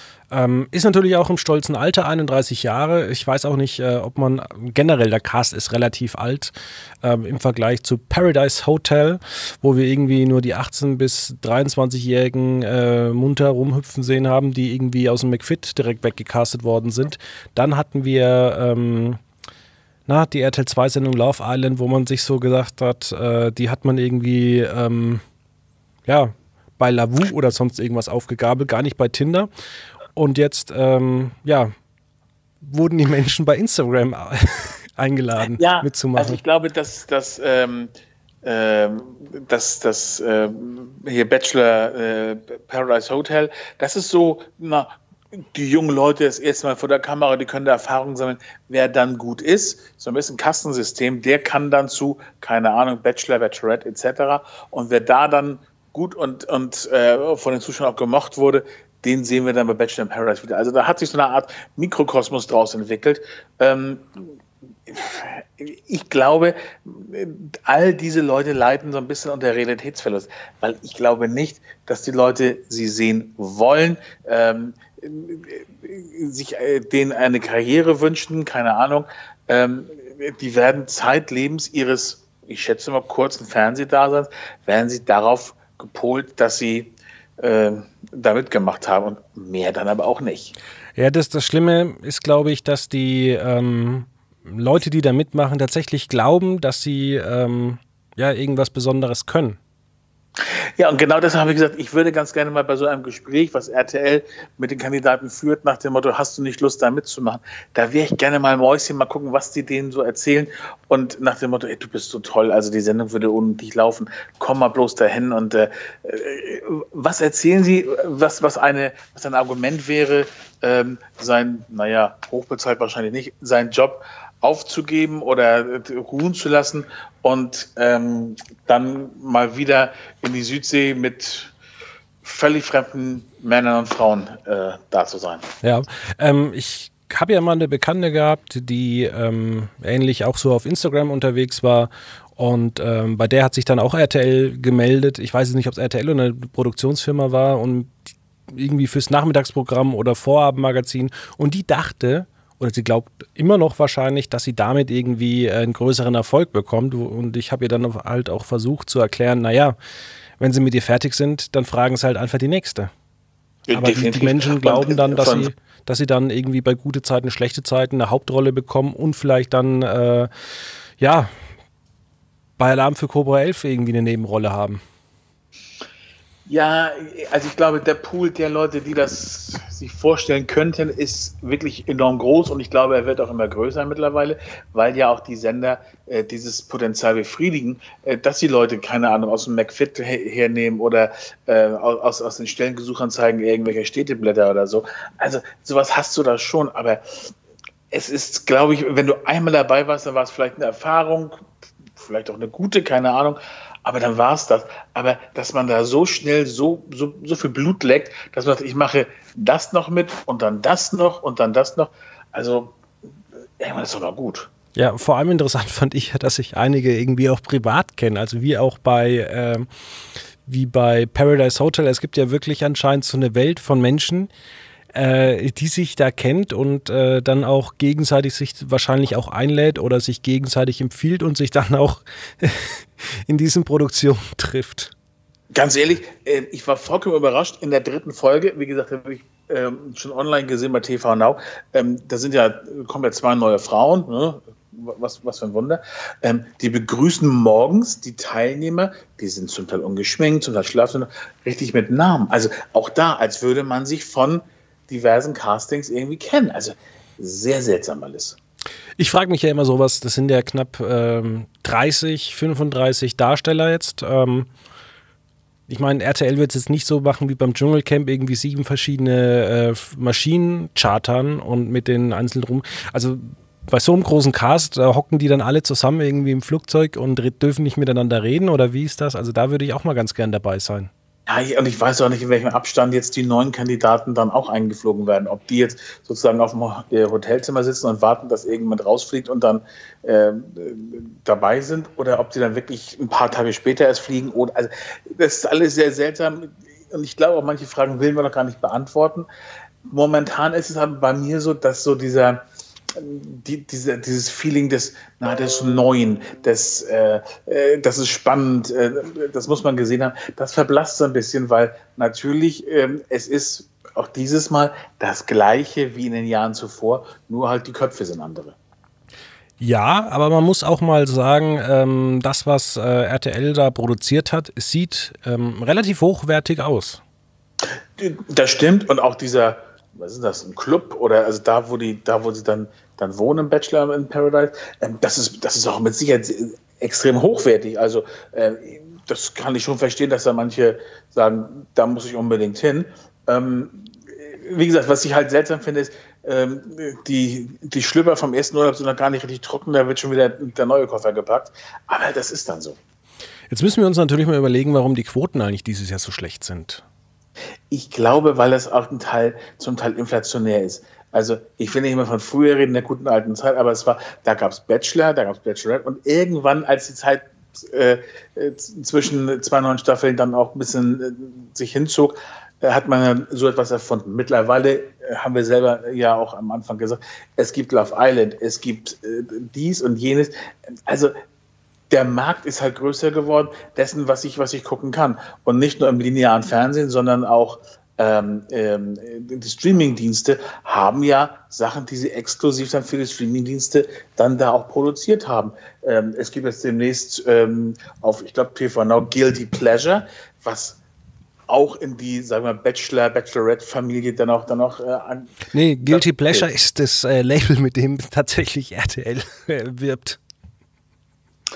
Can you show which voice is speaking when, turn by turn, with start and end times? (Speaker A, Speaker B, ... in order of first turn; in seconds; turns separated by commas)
Speaker A: 0.3-19.2, Speaker A: 20.1-25.2, Speaker A: 26.1-29.5, Speaker A: 30.1-31.7, Speaker A: 32.6-36.4, Speaker B: 35.5-37.9, Speaker B: 38.4-64.3, Speaker B: 64.9-90.5, Speaker A: 91.0-99.6, Speaker B: 100.8-131.5, Speaker B: 132.2-135.5, Speaker A: 135.6-147.9, Speaker A: 148.5-159.8, Speaker A: 160.4-162.9, Speaker B: 163.7-165.5, Speaker A: 163.7-170.3, Speaker A: 171.0-171.3, Speaker A: 172.6-174.8, Speaker B: 176.4-197.3, Speaker B: 197.9-201.4, Speaker B: 201.9-212.8, Speaker B: 213.6-214.5, Speaker A: 214.7-219.7, Speaker A: 220.4-224.3, Speaker A: 224.9-234.9, Speaker B: 235.5-258.4, Speaker A: 259.0-264.5, Speaker A: 265.7-280.9, Speaker B: 281.3-299.3, Speaker B: 299.9-318.5, Speaker A: 319.6-327.0, Speaker B: 328.0-352.8, Speaker A: 353.5-356.8, Speaker B: 357.7-381.1, Speaker B: 381.9-400.8, Speaker B: 401.5-406.5, Speaker A: 405.5-410.2